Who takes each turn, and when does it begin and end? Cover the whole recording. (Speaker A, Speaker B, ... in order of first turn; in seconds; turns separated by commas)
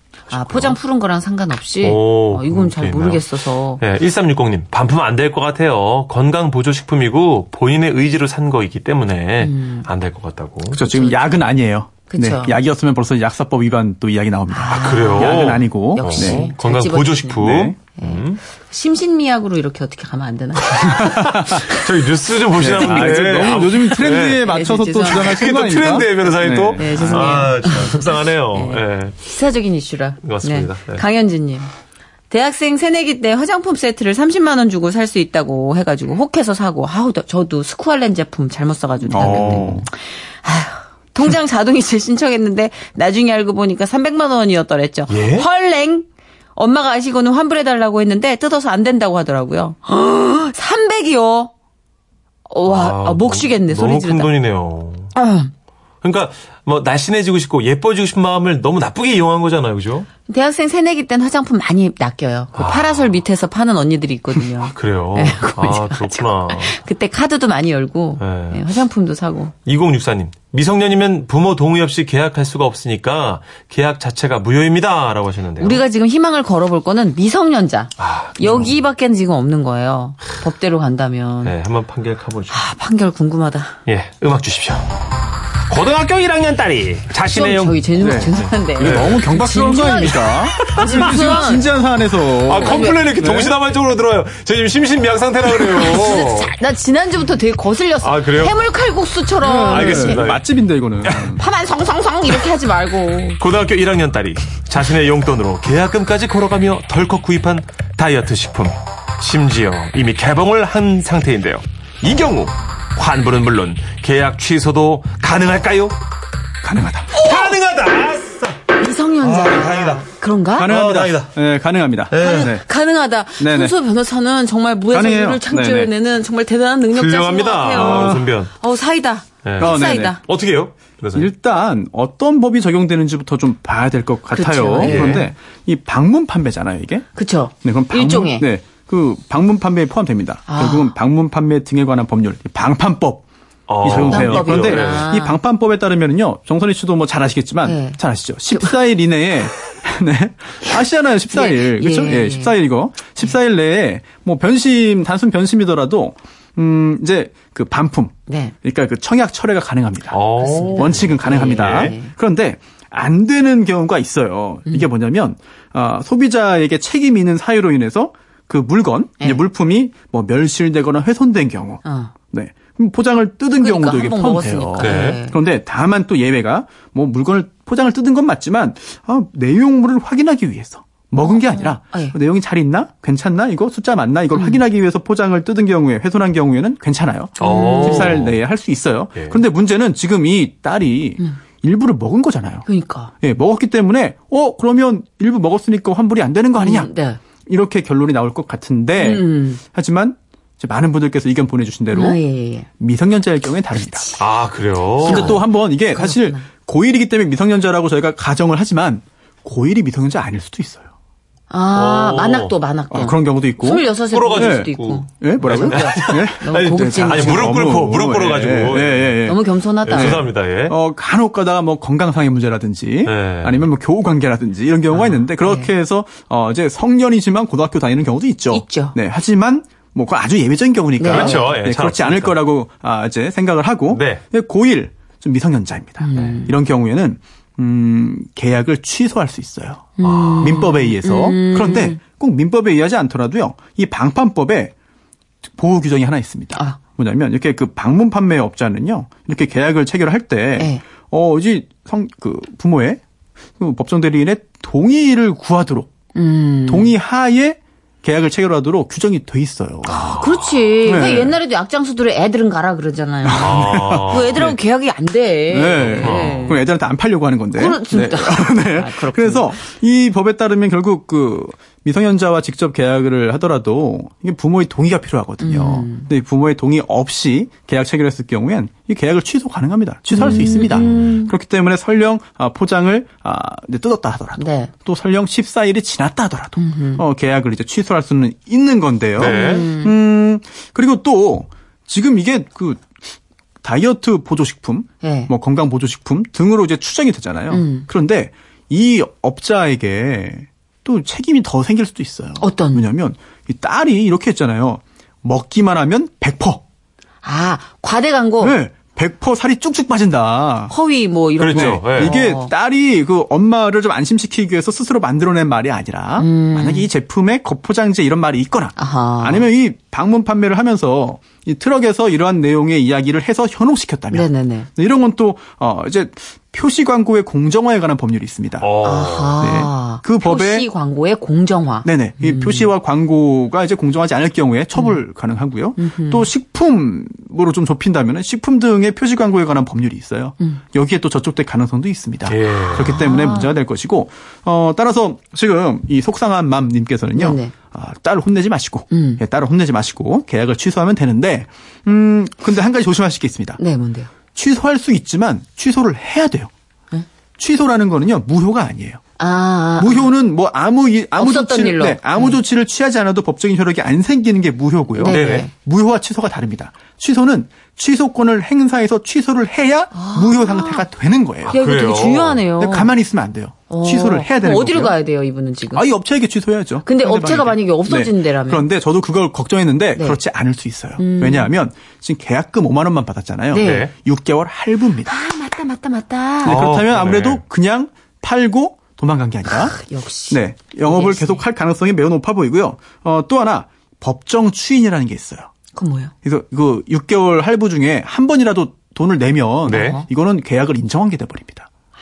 Speaker A: 0.3-0.8, Speaker B: 0.3-3.8, Speaker A: 1.8-10.8, Speaker B: 9.4-9.9, Speaker C: 10.7-16.5, Speaker B: 10.8-11.4, Speaker B: 12.1-12.6, Speaker B: 14.5-17.4, Speaker A: 14.7-18.4, Speaker C: 17.4-17.8, Speaker B: 18.0-21.8, Speaker A: 20.8-24.5, Speaker C: 21.0-21.6, Speaker C: 22.6-27.5, Speaker B: 22.7-25.5, Speaker A: 25.1-29.2, Speaker B: 26.7-31.7, Speaker A: 30.2-31.0, Speaker B: 32.3-51.5, Speaker C: 39.0-39.9, Speaker A: 39.1-39.8, Speaker A: 45.1-45.5, Speaker B: 52.5-54.3, Speaker A: 52.6-55.1, Speaker B: 55.1-55.5, Speaker A: 56.0-60.1, Speaker B: 60.3-69.5, Speaker A: 62.6-63.2, Speaker A: 64.6-66.8, Speaker A: 68.2-68.6, Speaker A: 69.7-75.8, Speaker B: 75.6-81.5, Speaker A: 78.0-78.7, Speaker A: 81.4-82.7, Speaker B: 82.5-83.8, Speaker A: 83.9-85.0, Speaker A: 85.7-87.8, Speaker B: 87.3-91.7, Speaker C: 88.0-93.5, Speaker A: 88.8-89.3, Speaker A: 90.8-91.5, Speaker A: 92.5-96.5, Speaker B: 92.5-93.1, Speaker B: 95.5-100.2, Speaker A: 98.0-98.5, Speaker C: 99.4-101.4, Speaker A: 99.6-100.4, Speaker A: 101.0-101.4, Speaker B: 101.3-103.4, Speaker A: 103.4-116.0, Speaker C: 116.6-117.1, Speaker A: 117.1-118.6, Speaker B: 118.8-120.7, Speaker A: 119.2-120.1, Speaker C: 120.6-122.7, Speaker A: 120.6-121.3, Speaker A: 122.1-122.5, Speaker B: 122.2-130.2, Speaker C: 123.4-123.8, Speaker C: 124.9-125.9, Speaker A: 126.9-128.5, Speaker C: 127.7-128.3, Speaker A: 129.4-131.3, Speaker C: 129.6-130.2, Speaker C: 131.1-137.1, Speaker B: 134.3-135.3, Speaker A: 134.8-135.3, Speaker B: 137.2-138.5, Speaker C: 137.6-143.2, Speaker B: 140.5-140.9, Speaker A: 143.7-145.1, Speaker C: 143.8-160.2, Speaker B: 143.8-145.4, Speaker B: 147.6-148.8, Speaker B: 151.3-152.6, Speaker B: 158.3-158.6, Speaker A: 160.1-161.9, Speaker B: 160.4-162.1, Speaker C: 160.7-192.7, Speaker B: 171.8-172.1, Speaker B: 173.6-175.4, Speaker A: 174.8-175.2, Speaker B: 181.3-182.2, Speaker B: 184.3-184.6, Speaker B: 187.4-188.2, Speaker A: 187.4-188.4, Speaker B: 192.7-193.1, Speaker C: 193.2-196.9, Speaker B: 196.6-197.2, Speaker C: 197.5-202.2, Speaker B: 199.0-199.6, Speaker B: 201.9-202.7, Speaker C: 202.8-204.1, Speaker B: 203.8-204.2, Speaker A: 204.2-205.4, Speaker C: 205.0-210.9, Speaker B: 205.1-206.4, Speaker B: 211.5-217.6, Speaker A: 211.7-212.5, Speaker C: 212.9-244.7, Speaker A: 214.1-219.2, Speaker B: 219.2-220.2, Speaker A: 219.8-220.8, Speaker A: 223.1-223.7, Speaker B: 224.9-225.7, Speaker B: 228.5-229.0, Speaker B: 231.0-231.5, Speaker A: 231.0-232.4, Speaker A: 233.9-234.2, Speaker B: 236.0-236.6, Speaker B: 240.0-242.0, Speaker A: 240.0-240.7, Speaker C: 245.5-253.0, Speaker C: 253.6-255.9, Speaker B: 256.1-256.9, Speaker C: 256.7-260.1, Speaker B: 259.9-266.6, Speaker C: 260.8-261.4, Speaker C: 263.2-264.6, Speaker A: 263.4-264.5, Speaker C: 265.5-293.0, Speaker A: 265.8-266.6, Speaker B: 267.5-269.6, Speaker B: 275.4-276.1, Speaker B: 280.1-281.3, Speaker B: 284.4-284.7, Speaker B: 286.6-287.0, Speaker A: 289.2-289.7, Speaker B: 289.2-290.0, Speaker C: 293.6-306.6, Speaker B: 295.0-295.3, Speaker B: 297.5-297.9, Speaker B: 302.4-302.9, Speaker B: 307.2-308.6, Speaker C: 308.4-310.7, Speaker B: 310.7-312.5, Speaker A: 311.4-312.2, Speaker C: 311.5-328.7, Speaker B: 316.2-316.9, Speaker B: 318.8-319.5, Speaker B: 324.1-324.7, Speaker A: 328.6-329.4, Speaker B: 328.8-332.7, Speaker C: 329.4-330.7, Speaker C: 331.8-353.6, Speaker B: 334.8-335.0, Speaker B: 335.8-336.3, Speaker A: 342.3-343.0, Speaker B: 342.9-343.5, Speaker B: 347.1-347.5, Speaker B: 348.9-349.2, Speaker B: 353.6-354.1, Speaker C: 354.4-356.5, Speaker C: 357.4-359.0, Speaker B: 359.2-360.1, Speaker C: 359.8-371.6, Speaker B: 361.2-362.4, Speaker B: 364.9-365.5, Speaker A: 365.0-365.4, Speaker B: 369.9-370.9, Speaker A: 371.4-372.4, Speaker B: 371.5-372.9, Speaker C: 372.6-375.0, Speaker B: 373.7-375.9, Speaker C: 375.7-385.1, Speaker B: 376.8-378.7, Speaker B: 379.9-380.2, Speaker B: 381.0-381.5, Speaker B: 383.5-383.9, Speaker A: 383.5-383.9, Speaker B: 385.0-386.6, Speaker C: 386.4-389.8, Speaker A: 386.4-387.4, Speaker B: 389.5-391.4, Speaker C: 390.3-395.5, Speaker B: 395.7-396.1, Speaker C: 396.2-401.7, Speaker B: 399.7-400.1, Speaker A: 399.7-400.0